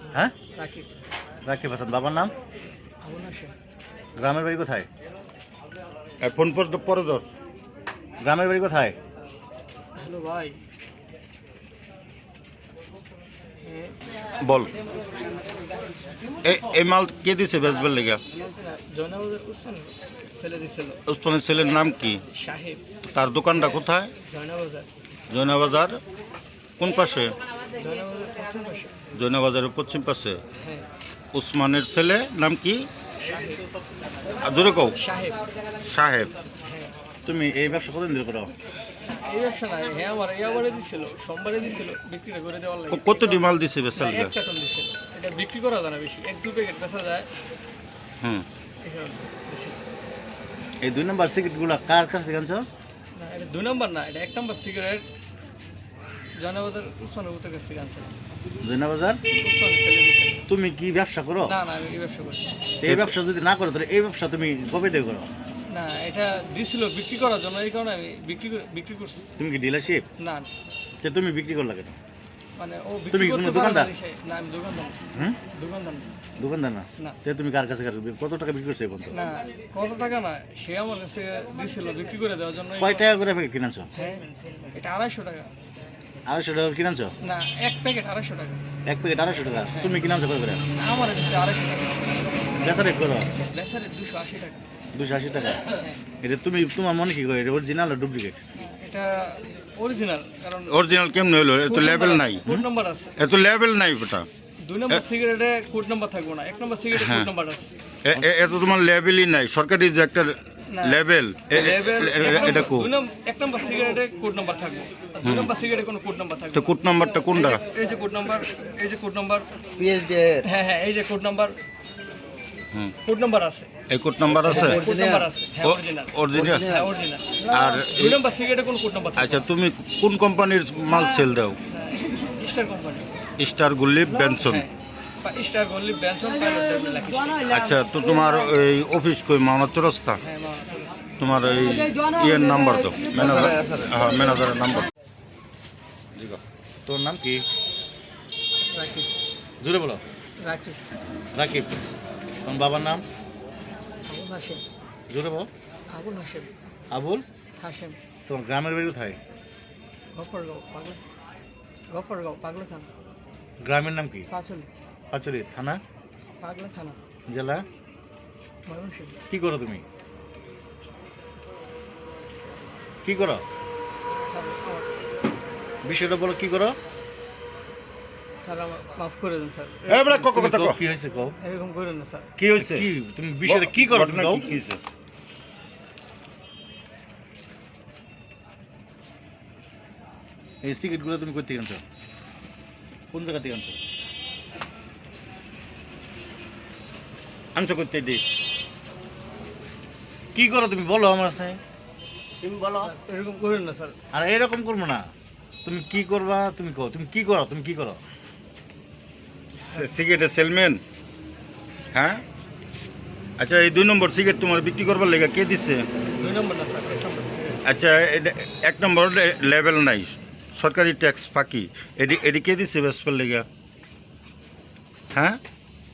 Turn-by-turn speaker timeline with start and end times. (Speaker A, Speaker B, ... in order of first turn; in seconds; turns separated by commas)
Speaker A: 0.5-0.9, Speaker B: 1.4-2.3, Speaker A: 3.0-3.5, Speaker B: 4.2-4.9, Speaker C: 6.2-7.2, Speaker B: 8.2-9.0, Speaker A: 9.9-10.6, Speaker C: 14.4-14.7, Speaker C: 16.4-18.2, Speaker A: 18.3-21.0, Speaker C: 21.1-22.2, Speaker A: 22.3-22.8, Speaker C: 23.1-24.1, Speaker A: 23.6-24.9, Speaker C: 25.3-26.0, Speaker C: 26.8-27.4, Speaker A: 27.8-29.0, Speaker C: 29.1-30.4, Speaker A: 30.5-30.9, Speaker C: 31.3-32.9, Speaker A: 33.2-33.6, Speaker C: 34.4-35.0, Speaker A: 35.0-35.4, Speaker C: 35.8-36.3, Speaker A: 36.6-36.9, Speaker B: 37.3-38.5, Speaker A: 39.2-43.4, Speaker C: 42.9-44.3, Speaker A: 44.0-47.3, Speaker A: 48.8-49.8, Speaker B: 50.8-52.6, Speaker A: 53.1-55.0, Speaker A: 56.4-58.2, Speaker B: 58.6-59.2, Speaker A: 59.3-60.4, Speaker B: 60.5-61.6, Speaker A: 61.4-62.4, Speaker B: 62.8-65.3, Speaker C: 62.8-63.1, Speaker A: 65.7-69.2, Speaker B: 69.4-70.0, Speaker A: 70.2-70.5, Speaker B: 71.0-72.0, Speaker A: 72.6-75.0, Speaker B: 73.1-73.9, Speaker A: 75.5-76.1, Speaker B: 76.4-79.2, Speaker A: 79.1-83.0, Speaker B: 82.8-83.9, Speaker A: 83.9-85.5, Speaker B: 86.2-87.1, Speaker A: 87.2-88.6, Speaker B: 88.8-90.6, Speaker A: 89.7-90.0, Speaker A: 90.7-92.1, Speaker B: 92.6-93.3, Speaker A: 93.5-94.6, Speaker B: 94.9-98.4, Speaker A: 98.5-100.7, Speaker C: 100.7-102.4, Speaker A: 101.7-103.1, Speaker C: 103.2-104.3, Speaker A: 104.6-107.7, Speaker C: 106.9-107.3, Speaker C: 108.0-112.9, Speaker A: 110.7-111.0, Speaker A: 111.5-116.8, Speaker C: 115.2-115.5, Speaker C: 116.5-117.6, Speaker A: 117.3-119.5, Speaker D: 119.8-120.4, Speaker A: 120.4-121.5, Speaker A: 123.0-123.7, Speaker C: 123.9-124.8, Speaker D: 124.4-125.2, Speaker A: 124.5-129.4, Speaker C: 125.6-126.6, Speaker D: 126.3-126.9, Speaker C: 127.5-128.2, Speaker C: 129.2-131.6, Speaker A: 131.7-133.2, Speaker C: 133.4-134.6, Speaker A: 134.4-137.5, Speaker C: 137.5-140.2, Speaker A: 140.2-141.1, Speaker C: 141.2-144.9, Speaker D: 143.3-143.8, Speaker C: 146.1-146.4, Speaker B: 146.8-147.4, Speaker A: 148.7-149.1, Speaker B: 149.6-150.0, Speaker A: 150.4-150.8, Speaker B: 151.3-151.8, Speaker B: 152.4-153.0, Speaker A: 154.1-154.6, Speaker B: 155.1-155.5, Speaker A: 155.9-156.5, Speaker B: 156.9-157.2, Speaker A: 157.6-158.0, Speaker B: 158.3-159.2, Speaker A: 160.2-161.0, Speaker A: 161.9-162.9, Speaker B: 163.6-164.3, Speaker A: 164.3-164.7, Speaker B: 165.1-165.8, Speaker A: 166.4-167.0, Speaker B: 167.3-167.6, Speaker A: 168.7-169.2, Speaker B: 169.3-169.8, Speaker B: 173.0-173.4, Speaker A: 174.2-174.9, Speaker B: 175.8-176.8, Speaker A: 178.4-180.3, Speaker C: 179.9-180.8, Speaker B: 180.3-181.3, Speaker A: 181.4-182.3, Speaker C: 182.4-182.9, Speaker B: 182.6-184.6, Speaker C: 183.4-184.8, Speaker B: 190.6-191.8, Speaker B: 193.1-193.8, Speaker C: 197.5-198.2, Speaker B: 200.3-201.6, Speaker D: 202.4-202.9, Speaker A: 202.7-203.9, Speaker B: 204.1-205.1, Speaker B: 205.6-208.0, Speaker C: 209.6-210.8, Speaker C: 211.9-212.2, Speaker C: 213.4-215.8, Speaker A: 216.2-217.6, Speaker C: 217.6-223.4, Speaker C: 225.1-225.4